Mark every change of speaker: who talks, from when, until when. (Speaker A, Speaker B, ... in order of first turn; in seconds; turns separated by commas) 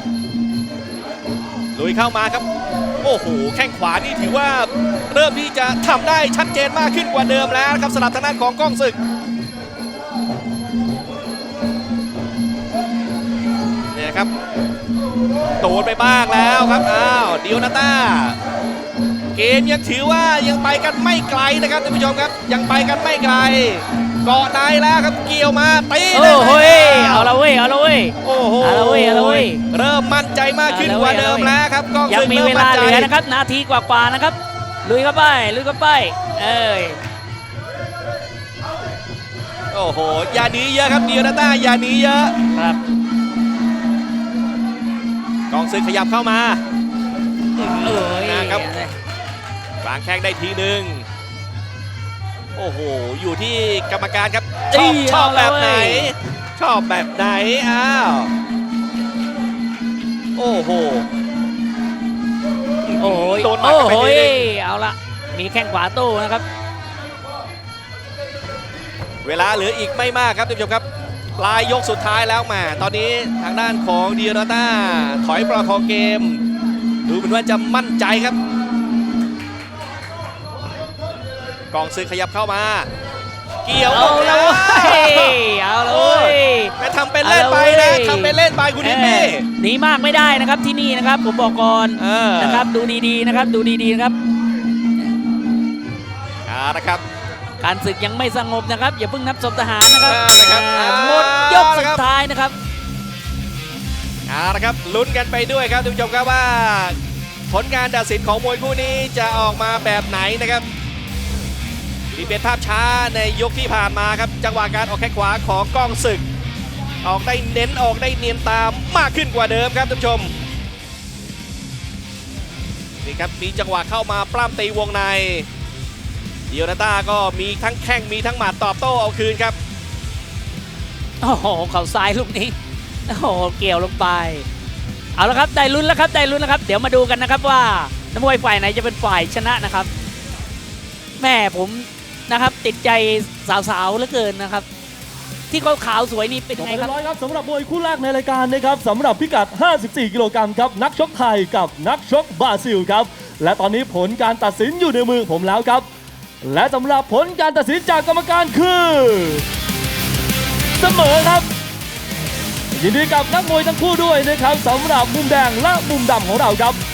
Speaker A: 1.8-2.5, Speaker A: 3.0-9.0, Speaker A: 13.9-14.3, Speaker A: 15.6-18.4, Speaker A: 19.4-27.4, Speaker B: 26.1-29.6, Speaker A: 28.2-33.1, Speaker B: 30.7-31.5, Speaker B: 32.1-37.0, Speaker A: 39.7-42.4, Speaker A: 45.5-46.6, Speaker A: 47.6-48.6, Speaker B: 47.8-49.0, Speaker A: 49.8-51.0, Speaker A: 52.6-58.3, Speaker B: 54.7-56.1, Speaker A: 60.4-61.1, Speaker A: 62.9-64.5, Speaker B: 63.0-66.5, Speaker A: 69.2-70.8, Speaker A: 71.4-76.4, Speaker A: 77.0-78.4, Speaker A: 81.7-82.9, Speaker A: 83.7-89.5, Speaker B: 83.9-94.2, Speaker A: 92.0-92.7, Speaker A: 96.5-97.0, Speaker B: 97.6-102.5, Speaker A: 100.0-102.0, Speaker A: 104.3-107.0, Speaker A: 107.5-110.7, Speaker A: 112.1-116.2, Speaker A: 117.0-120.3, Speaker A: 123.0-125.5, Speaker A: 126.5-129.6, Speaker B: 131.2-132.6, Speaker B: 133.1-134.5, Speaker B: 135.2-139.9, Speaker B: 141.2-144.7, Speaker B: 145.5-146.9, Speaker C: 146.6-155.9, Speaker C: 156.4-159.5, Speaker C: 160.8-161.5, Speaker C: 162.7-166.8